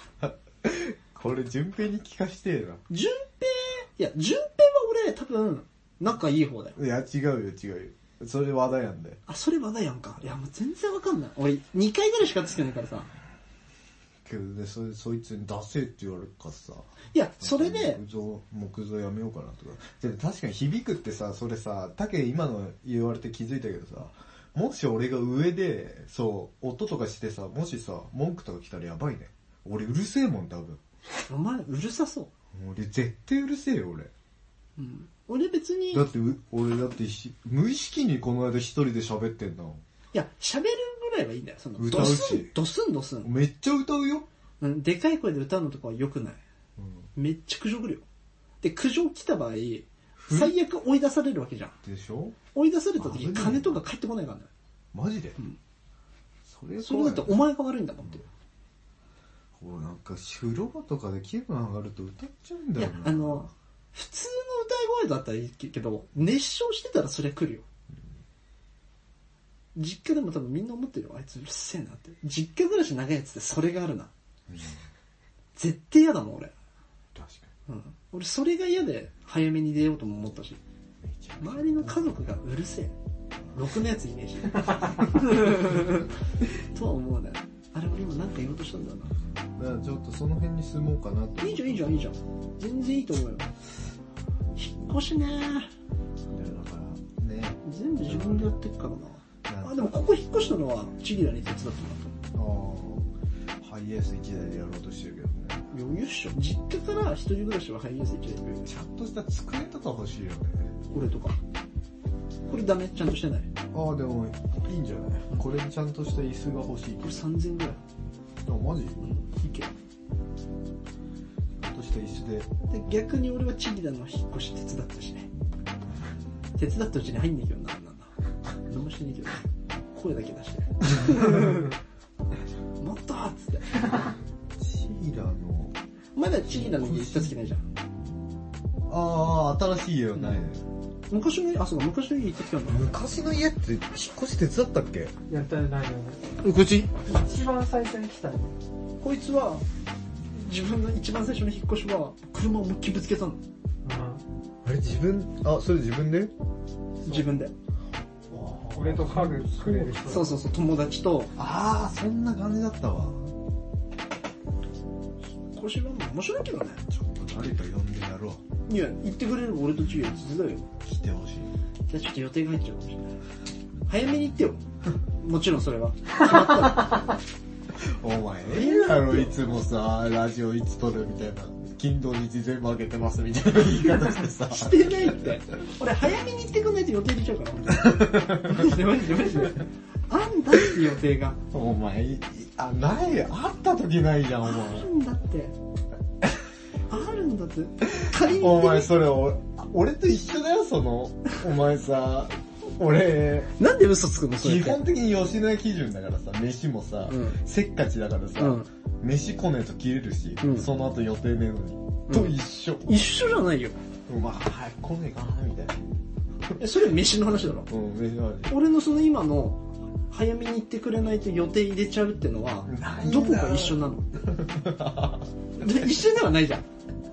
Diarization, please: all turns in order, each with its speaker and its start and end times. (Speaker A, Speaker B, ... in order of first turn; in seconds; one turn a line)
Speaker A: 0.2-2.8
Speaker B: 2.9-6.8
Speaker A: 6.8-9.2
Speaker B: 9.3-13.1
Speaker A: 14.2-30.8
Speaker B: 17.1-18.0
Speaker B: 31.3-32.3
Speaker A: 32.5-34.1
Speaker B: 34.8-36.0
Speaker A: 35.9-39.8
Speaker B: 40.1-43.3
Speaker A: 41.8-42.5
Speaker A: 43.2-44.2
Speaker B: 44.6-46.4
Speaker A: 46.8-47.1
Speaker B: 47.1-48.0
Speaker B: 48.6-51.8
Speaker A: 50.2-50.6
Speaker A: 51.8-52.4
Speaker B: 52.5-54.5
Speaker A: 53.0-53.8
Speaker A: 54.9-55.4
Speaker A: 56.5-57.4
Speaker B: 56.8-58.2
Speaker A: 59.5-63.5
Speaker B: 62.8-67.6
Speaker B: 69.7-74.1
Speaker A: 74.5-74.8
Speaker B: 75.5-76.5
Speaker A: 77.1-77.5
Speaker B: 77.7-80.6
Speaker A: 81.0-82.1
Speaker B: 81.4-82.9
Speaker B: 83.5-86.1
Speaker B: 86.7-89.1
Speaker A: 89.5-92.0
Speaker B: 91.4-93.5
Speaker B: 94.5-95.7
Speaker A: 96.3-98.5
Speaker B: 97.6-102.1
Speaker A: 99.5-99.9
Speaker A: 102.3-103.1
Speaker A: 103.6-105.7
Speaker B: 105.7-108.7
Speaker A: 108.7-110.7
Speaker B: 110.9-111.4
Speaker B: 112.5-113.5
Speaker A: 113.7-117.2
Speaker B: 117.0-117.8
Speaker A: 118.4-119.0
Speaker B: 119.0-119.7
Speaker A: 121.6-122.5
Speaker B: 122.7-125.3
Speaker B: 126.6-128.1
Speaker B: 128.7-131.8
Speaker B: 132.8-134.0
Speaker A: 134.6-135.7
Speaker B: 136.1-137.6
Speaker A: 136.5-137.3
Speaker A: 138.9-140.6
Speaker B: 141.1-142.9
Speaker A: 142.7-145.1
Speaker C: 145.3-146.3
Speaker B: 146.4-146.9
Speaker C: 147.0-148.5
Speaker B: 149.0-149.6
Speaker B: 150.3-153.4
Speaker C: 153.8-154.2
Speaker A: 154.6-156.3
Speaker B: 157.0-157.5
Speaker A: 158.3-160.3
Speaker C: 158.7-160.3
Speaker B: 160.1-161.3
Speaker A: 161.3-163.3
Speaker B: 165.5-166.8
Speaker A: 166.8-168.4
Speaker B: 168.7-170.7
Speaker A: 170.8-171.5
Speaker B: 171.9-173.2
Speaker B: 173.9-174.6
Speaker B: 175.2-177.1
Speaker A: 177.8-185.3
Speaker B: 178.5-179.3
Speaker B: 184.5-191.4
Speaker A: 187.8-188.8
Speaker A: 191.5-194.9
Speaker B: 194.4-195.5
Speaker B: 196.9-198.9
Speaker A: 198.0-203.5
Speaker B: 203.6-204.8
Speaker A: 204.4-213.0
Speaker B: 207.1-207.4
Speaker B: 208.4-208.7
Speaker B: 210.4-210.7
Speaker B: 212.1-212.3
Speaker B: 212.8-213.8
Speaker A: 214.1-215.8
Speaker B: 216.6-217.7
Speaker A: 217.7-218.5
Speaker B: 218.5-224.4
Speaker A: 222.6-225.3
Speaker B: 225.6-226.6